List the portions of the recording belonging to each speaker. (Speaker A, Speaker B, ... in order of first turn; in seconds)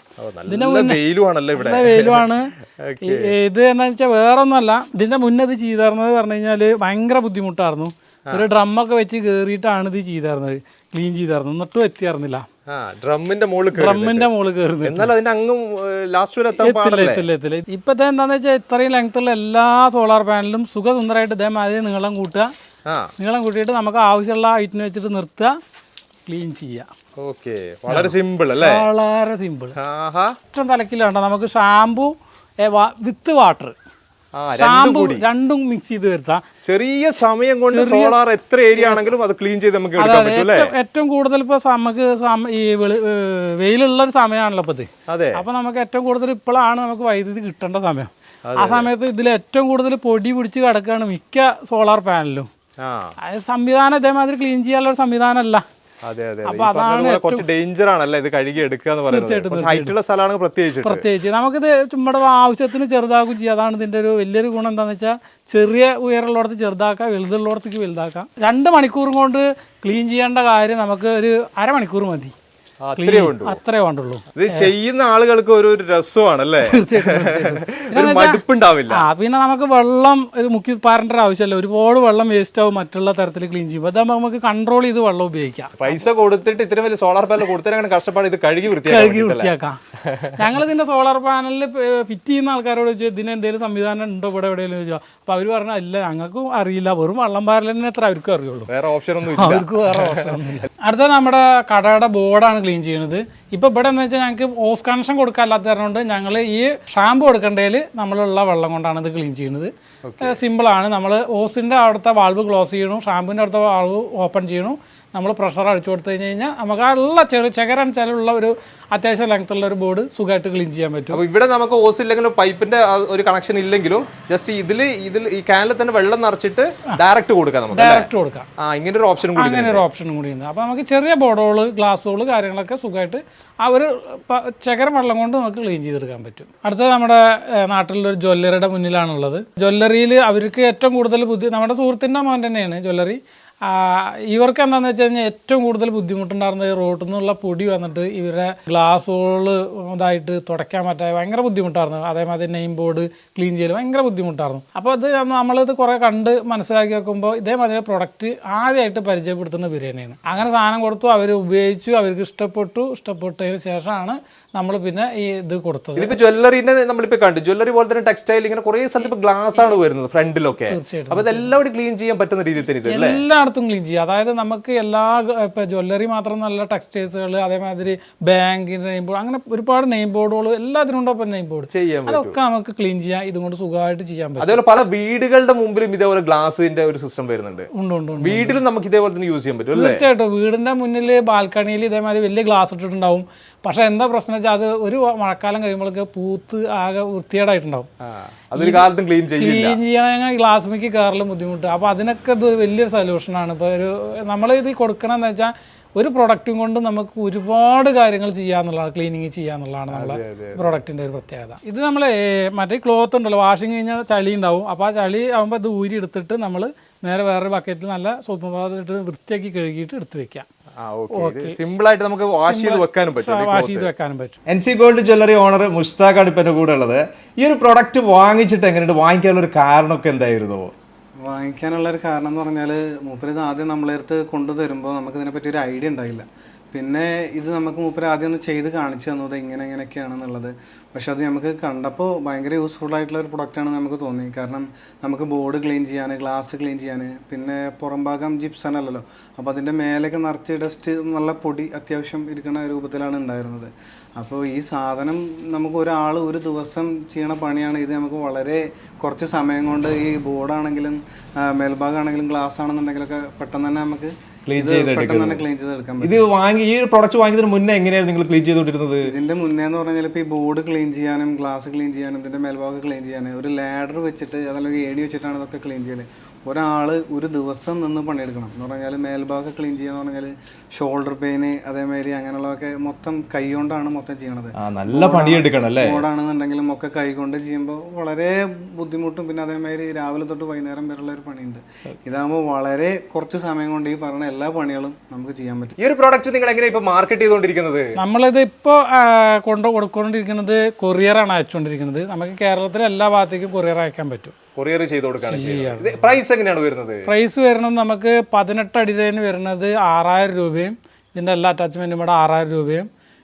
Speaker A: 0.2-3.3, 12.7-14.3, 14.8-17.2, 27.2-28.9, 29.8-30.3, 34.4-35.2, 36.6-40.7, 45.1-45.4, 48.4-48.9, 52.8-53.1, 56.0-61.0, 72.8-73.6, 74.3-79.0, 85.8-89.5, 90.0-90.3, 98.7-100.3, 110.0-110.4, 121.1-129.8, 166.0-173.2, 181.7-182.4, 184.4-187.7, 188.2-190.1, 198.3-199.8, 209.9-210.6, 220.8-223.9, 224.5-230.7, 264.5-265.4, 266.0-269.1, 284.6-286.0, 295.8-297.9, 304.6-307.0
Speaker B: 0.5-1.0, 1.6-12.4, 13.7-15.1, 16.6-22.5, 23.2-25.5, 26.2-26.9, 27.9-29.8, 30.5-33.7, 34.5-36.4, 37.7-38.2, 38.8-39.1, 40.0-52.5, 53.2-55.6, 56.5-57.4, 59.1-59.9, 60.8-72.3, 73.0-74.7, 76.6-86.0, 88.8-89.8, 90.4-98.7, 99.3-121.2, 127.7-128.5, 129.3-166.2, 170.7-171.5, 172.8-184.6, 187.7-188.6, 189.7-197.9, 198.6-198.9, 199.4-220.4, 221.1-221.6, 222.4-224.3, 298.0-304.3, 305.2-306.2, 307.1-312.9
Speaker C: 231.2-266.3, 269.0-295.7